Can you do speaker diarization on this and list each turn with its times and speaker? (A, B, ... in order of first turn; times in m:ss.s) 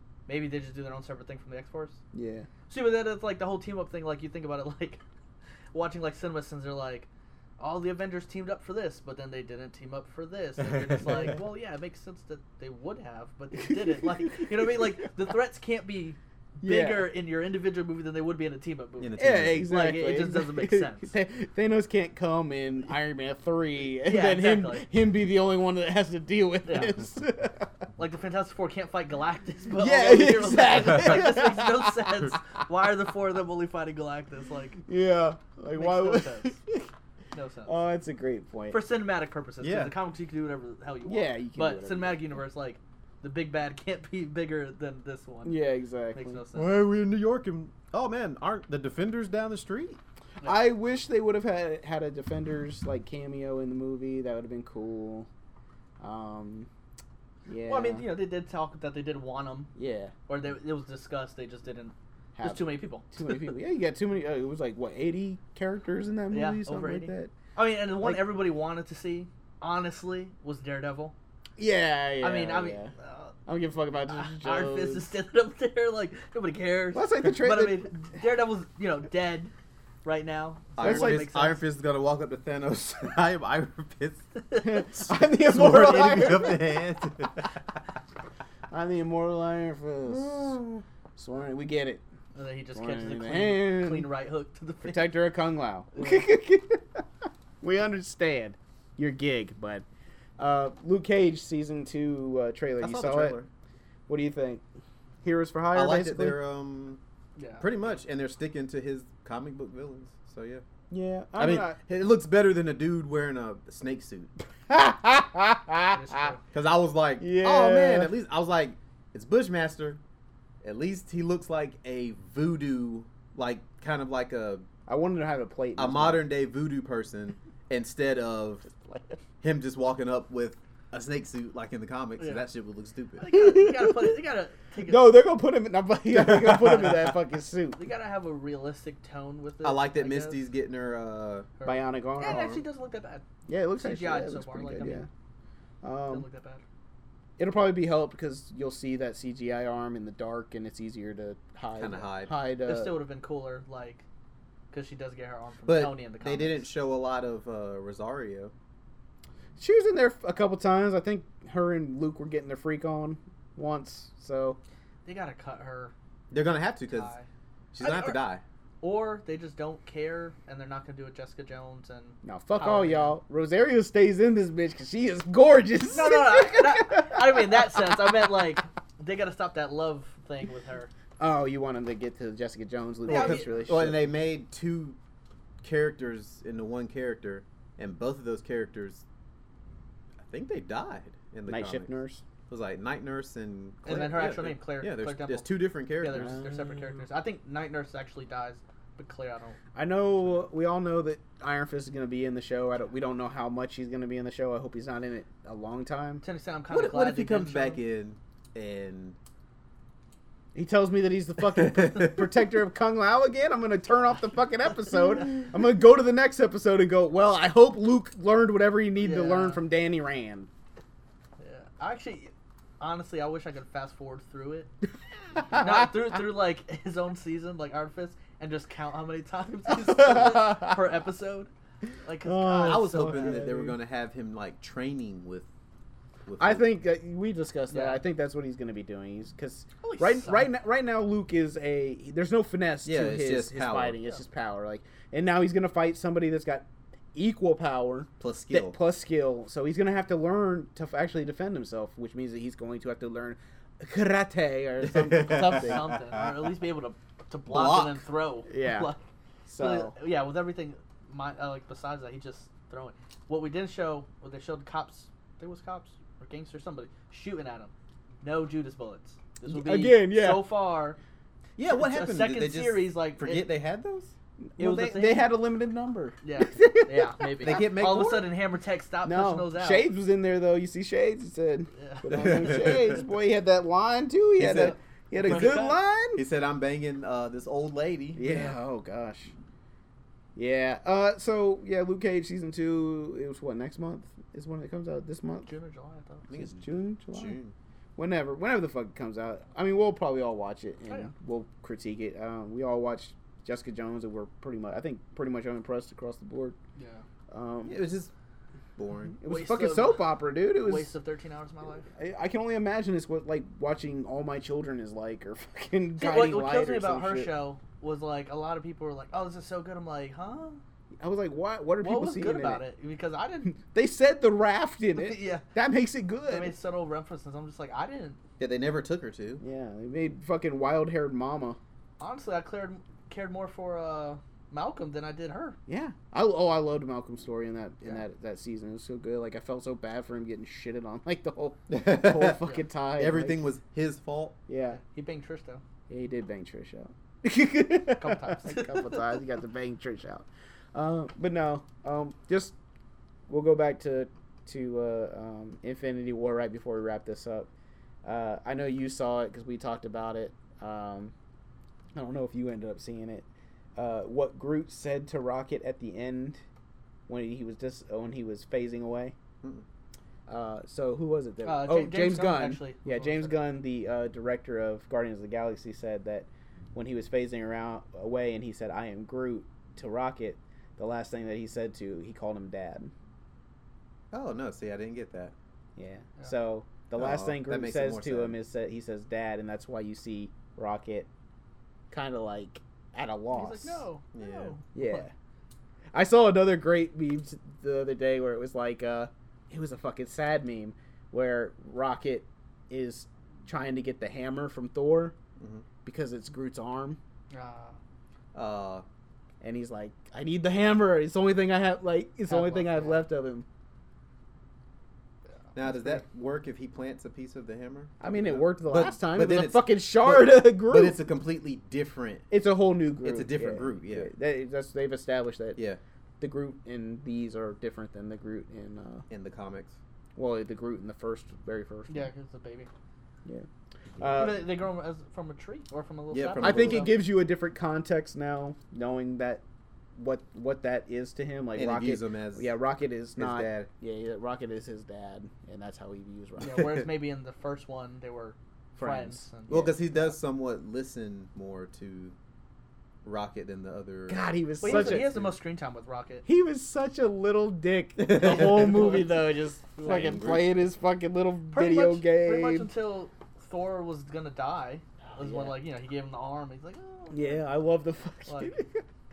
0:00.3-0:02.0 A
0:02.1-0:02.5 B
0:02.7-0:05.0 A
0:05.7-0:07.1 A
0:07.6-0:21.1 A
0:10.8-0:11.3 C
0:13.6-0:14.7 B
0:16.6-0:17.1 B
0:19.0-0:19.7 C
0:19.2-0:27.8 B
0:24.0-0:24.9 A
0:26.7-0:26.9 A
0:28.0-0:34.8 A
0:29.7-0:32.4 B
0:34.8-0:36.9 B
0:35.7-0:36.6 A
0:37.3-0:37.8 A
0:37.6-0:38.8 B
0:38.7-0:45.6 A
0:39.6-0:39.9 C
0:41.0-0:42.3 B
0:45.4-0:46.4 B
0:46.1-0:46.7 A
0:46.5-0:50.0 C
0:50.4-0:55.3 B
0:56.0-0:56.7 B
0:57.4-0:58.0 B
0:57.7-0:59.7 A
0:59.7-1:00.1 B
1:00.3-1:03.5 A
1:02.4-1:07.3 B
1:06.3-1:11.1 A
1:08.0-1:08.2 B
1:11.6-1:12.9 B
1:12.2-1:13.3 A
1:13.4-1:15.1 B
1:14.1-1:19.5 A
1:16.9-1:17.9 B
1:20.0-1:21.6 A
1:20.8-1:24.3 C
1:20.8-1:21.3 B
1:24.4-1:24.9 A
1:24.6-1:26.8 B
1:24.9-1:27.5 C
1:28.7-1:32.0 B
1:32.3-1:35.2 A
1:32.7-1:34.1 B
1:34.8-1:37.0 B
1:35.9-1:36.2 A
1:37.6-1:39.8 B
1:40.4-1:43.4 B
1:42.8-1:43.5 C
1:44.1-1:44.6 B
1:45.2-1:46.4 B
1:45.7-1:47.0 C
1:47.4-1:47.7 A
1:47.6-1:50.6 C
1:50.9-1:51.8 B
1:51.4-1:54.3 C
1:54.7-1:56.3 B
1:55.9-1:56.4 A
1:56.5-2:00.0 C
1:57.2-1:58.1 B
2:00.6-2:04.6 C
2:04.9-2:06.2 B
2:05.8-2:08.7 C
2:08.9-2:09.2 B
2:09.4-2:13.3 C
2:12.2-2:12.4 A
2:13.2-2:15.1 A
2:13.2-2:14.2 B
2:14.8-2:17.8 B
2:16.2-2:17.0 C
2:17.8-2:20.4 A
2:19.6-2:21.5 C
2:21.6-2:23.2 A
2:21.6-2:22.5 B
2:22.2-2:22.6 C
2:23.5-2:25.1 B
2:23.8-2:25.0 A
2:25.8-2:26.2 B
2:26.1-2:26.6 A
2:27.4-2:33.0 B
2:31.8-2:32.3 C
2:32.6-2:34.0 A
2:34.7-2:36.6 A
2:35.7-2:38.5 C
2:39.6-2:44.6 B
2:45.0-2:45.9 A
2:46.3-2:47.1 C
2:46.9-2:47.3 A
2:47.7-2:48.4 C
2:47.8-2:48.2 A
2:48.8-2:53.2 A
2:52.2-2:58.1 B
2:55.9-3:00.9 A
3:01.2-3:04.1 B
3:03.0-3:03.6 A
3:03.1-3:05.0 C
3:05.6-3:09.0 C
3:10.3-3:11.9 C
3:11.5-3:12.2 B
3:12.5-3:16.3 C
3:13.8-3:19.6 A
3:16.1-3:17.0 B
3:19.7-3:26.2 B
3:26.2-3:27.8 A
3:26.7-3:29.2 C
3:30.5-3:40.5 B
3:39.0-3:39.6 A
3:41.4-3:44.7 A
3:45.4-3:45.9 B
3:45.5-3:51.5 A
3:49.7-3:50.8 B
3:52.0-3:53.5 A
3:52.2-3:53.8 B
3:52.6-3:55.5 C
3:56.3-3:56.7 C
3:56.4-4:15.9 B
3:57.7-3:58.0 A
3:59.8-4:00.5 A
4:02.8-4:04.0 C
4:08.2-4:08.8 C
4:14.8-4:16.3 C
4:15.2-4:19.0 A
4:17.5-4:18.0 C
4:18.5-4:18.9 B
4:19.4-4:19.9 B
4:19.6-4:31.0 A
4:29.5-4:30.5 B
4:31.6-4:34.1 C
4:31.7-4:33.5 A
4:34.6-4:37.7 B
4:34.6-4:35.3 A
4:36.2-4:39.9 A
4:37.4-4:38.3 C
4:39.0-4:46.2 B
4:41.8-4:42.4 A
4:42.1-4:43.0 C
4:44.4-4:44.7 C
4:44.4-4:45.8 A
4:45.3-4:45.6 C
4:46.2-4:48.2 C
4:48.1-4:49.3 B
4:48.2-4:48.5 A
4:50.4-4:55.5 B
4:55.4-4:56.2 A
4:56.3-4:57.5 C
4:56.4-4:57.4 B
4:58.0-5:06.6 B
5:06.8-5:07.0 A
5:07.3-5:07.9 B
5:07.7-5:08.1 C
5:08.8-5:09.2 C
5:09.2-5:10.9 B
5:09.2-5:11.9 A
5:11.9-5:17.3 B
5:16.0-5:20.6 A
5:21.0-5:22.6 B
5:21.8-5:23.6 A
5:23.5-5:26.5 B
5:25.0-5:25.5 A
5:26.2-5:28.2 A
5:28.4-5:29.4 C
5:29.4-5:31.6 B
5:32.0-5:35.6 A
5:35.7-5:43.4 B
5:41.7-5:42.4 C
5:43.0-5:44.4 C
5:44.5-5:44.8 B
5:44.8-5:45.6 A
5:45.9-5:52.5 B
5:48.0-5:49.0 A
5:53.3-5:57.5 B
5:58.0-6:01.1 B
6:01.9-6:03.2 B
6:03.8-6:06.4 B
6:07.1-6:09.1 B
6:10.3-6:22.9 B
6:11.4-6:13.4 A
6:24.1-6:25.3 C
6:25.8-6:31.1 B
6:26.9-6:28.4 C
6:31.9-6:33.8 B
6:33.3-6:35.1 A
6:34.1-6:34.6 C
6:34.7-6:35.1 B
6:35.9-6:45.1 B
6:45.4-6:45.6 C
6:45.8-6:47.0 B
6:47.3-6:47.8 A
6:48.3-6:48.8 C
6:49.4-6:53.4 B
6:52.3-6:53.0 A
6:55.6-7:02.2 C
6:58.0-7:01.0 B
7:02.3-7:05.6 B
7:03.0-7:04.1 C
7:06.2-7:09.1 B
7:09.1-7:09.8 C
7:10.2-7:12.1 B
7:11.9-7:12.7 A
7:14.0-7:14.5 B
7:14.1-7:16.9 A
7:16.1-7:17.0 C
7:16.4-7:19.4 B
7:20.0-7:26.8 B
7:21.5-7:22.6 C
7:23.2-7:23.7 C
7:26.4-7:29.7 A
7:28.8-7:29.8 B
7:29.5-7:32.2 C
7:33.0-7:35.3 C
7:34.1-7:35.2 B
7:34.6-7:36.2 A
7:36.2-7:42.7 B
7:38.0-7:38.9 C
7:38.1-7:40.3 A
7:39.8-7:40.6 C
7:41.5-7:47.4 A
7:45.1-7:45.6 B
7:47.1-7:48.8 B
7:48.3-7:48.5 A